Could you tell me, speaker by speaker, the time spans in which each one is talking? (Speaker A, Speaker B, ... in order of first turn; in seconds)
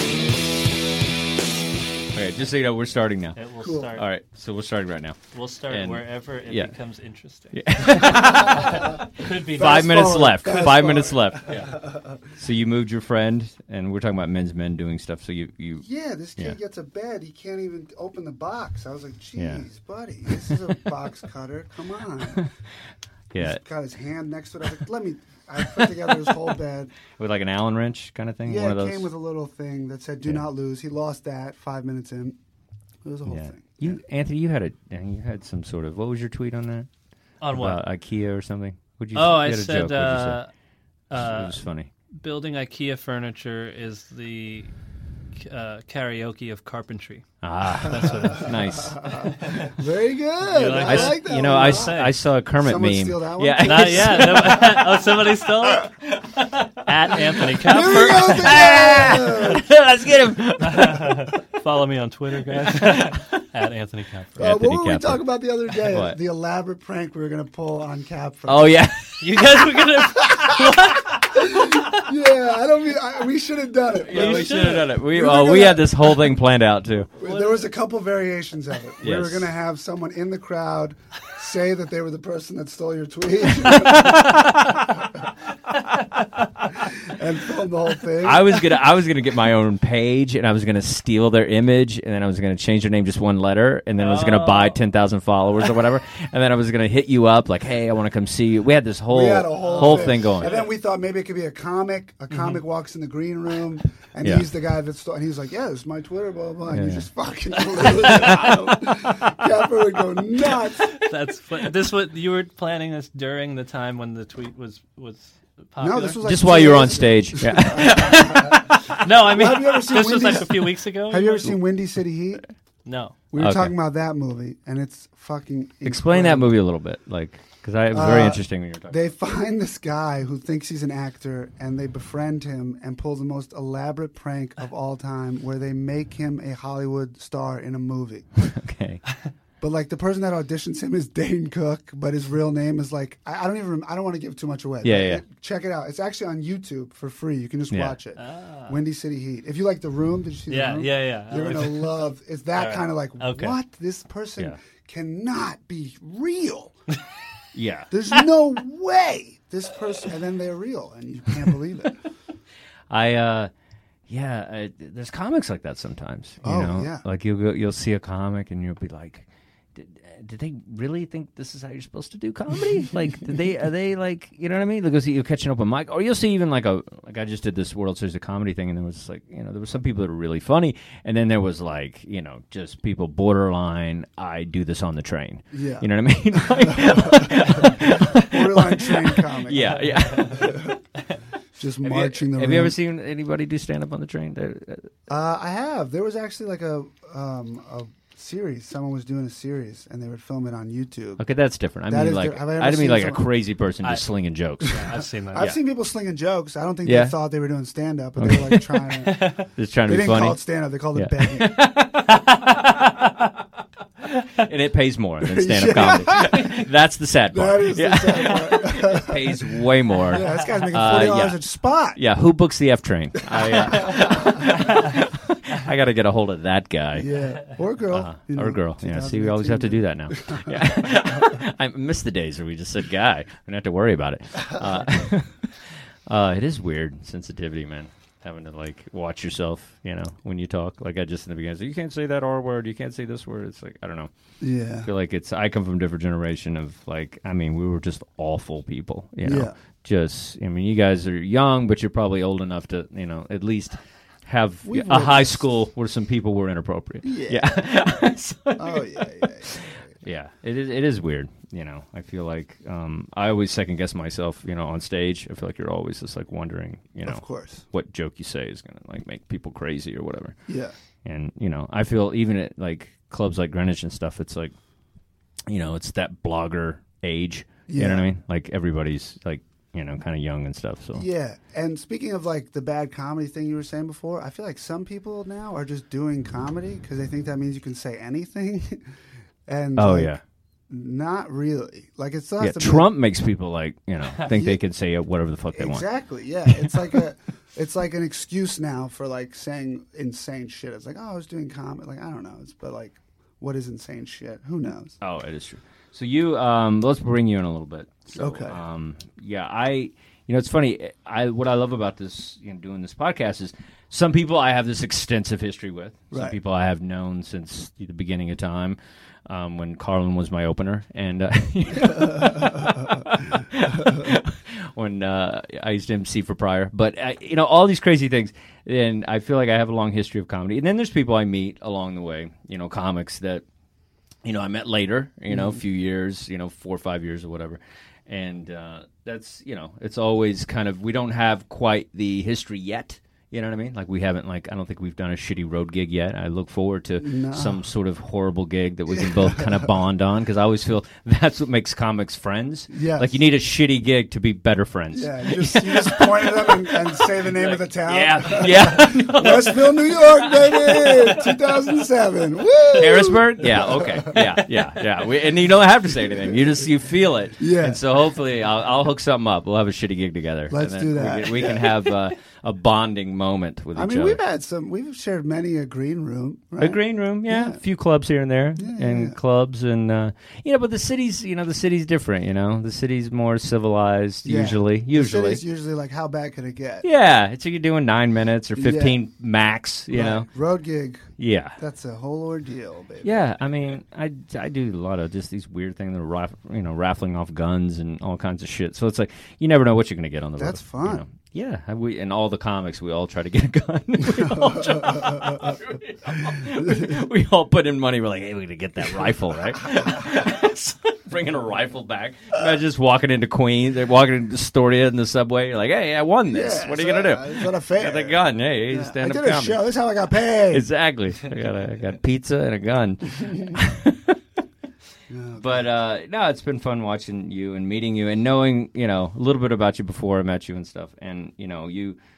Speaker A: 2.1-3.4, 3.9-5.2, 5.7-6.7, 7.5-15.9, 19.4-19.6, 23.3-23.6, 27.1-29.1, 33.3-36.9, 37.5-40.4, 41.2-41.9, 47.4-49.3, 50.7-54.9, 56.0-56.8, 57.7-61.4, 62.8-63.4, 64.4-65.2, 65.8-66.2, 68.5-69.3, 74.0-77.1, 79.0-79.5, 88.2-100.5, 106.7-107.1, 116.2-119.0, 123.4-123.8, 125.8-129.0, 138.4-139.0, 144.8-145.2, 147.7-148.0, 157.5-157.9, 162.9-163.5, 164.1-190.8, 191.8-194.9, 201.2-205.6, 206.8-207.2, 208.2-210.4, 210.9-212.6, 214.2-221.4, 222.0-227.1, 227.9-244.1, 244.8-270.4, 271.1-274.5, 275.5-281.1, 289.8-290.2, 292.4-295.9, 296.5-296.9, 305.0-333.4, 334.2-361.5, 362.7-374.2, 376.6-385.4, 386.8-390.3, 391.2-391.6, 393.0-419.6, 420.5-424.2, 425.4-432.0
Speaker B: 3.4-4.1, 5.3-10.2, 37.4-37.8, 39.1-40.5, 41.1-41.6, 42.2-44.7, 45.4-48.7, 49.4-49.7, 50.5-52.1, 53.6-55.9, 56.7-58.8, 60.6-64.5, 69.2-72.1, 74.1-74.9, 77.2-77.6, 94.0-94.8, 99.6-100.7, 108.2-108.5, 110.9-116.9, 118.9-121.6, 122.8-123.2, 148.2-148.8, 150.5-152.0, 152.5-153.6, 204.6-205.5, 212.3-213.0
Speaker C: 3.6-4.0, 8.2-8.8, 9.5-12.2, 15.8-22.5, 23.4-26.9, 28.4-32.4, 33.0-34.0, 48.5-52.0, 52.6-55.0, 57.5-59.6, 64.4-68.8, 69.9-70.8, 71.3-76.3, 77.2-85.3, 86.6-88.6, 99.1-111.0, 115.8-122.4, 123.3-126.5, 127.9-138.3, 139.6-156.8, 157.9-162.1, 166.4-167.0, 173.0-173.4, 185.5-190.8, 191.6-192.8, 195.1-201.2, 201.9-203.2, 204.8-209.3, 209.9-211.7, 215.2-216.6, 217.3-222.0, 223.3-224.4, 226.9-231.4, 244.4-244.9, 249.2-249.6, 254.7-255.4, 257.0-257.5, 258.6-259.9, 267.1-267.6, 270.5-270.7, 277.7-278.1, 281.0-288.9, 289.5-290.2, 290.7-292.9, 294.2-294.6, 295.5-305.0, 308.1-308.6, 316.1-316.4, 321.8-323.2, 335.3-335.6, 347.0-347.7, 348.9-349.7, 352.7-353.1, 354.9-364.4, 366.1-366.4, 367.4-367.8, 370.5-371.8, 373.8-377.6, 378.6-379.2, 384.2-386.9, 388.6-389.0, 389.9-393.2, 400.4-401.0, 404.1-405.6, 406.2-406.9, 416.3-420.7, 425.1-425.7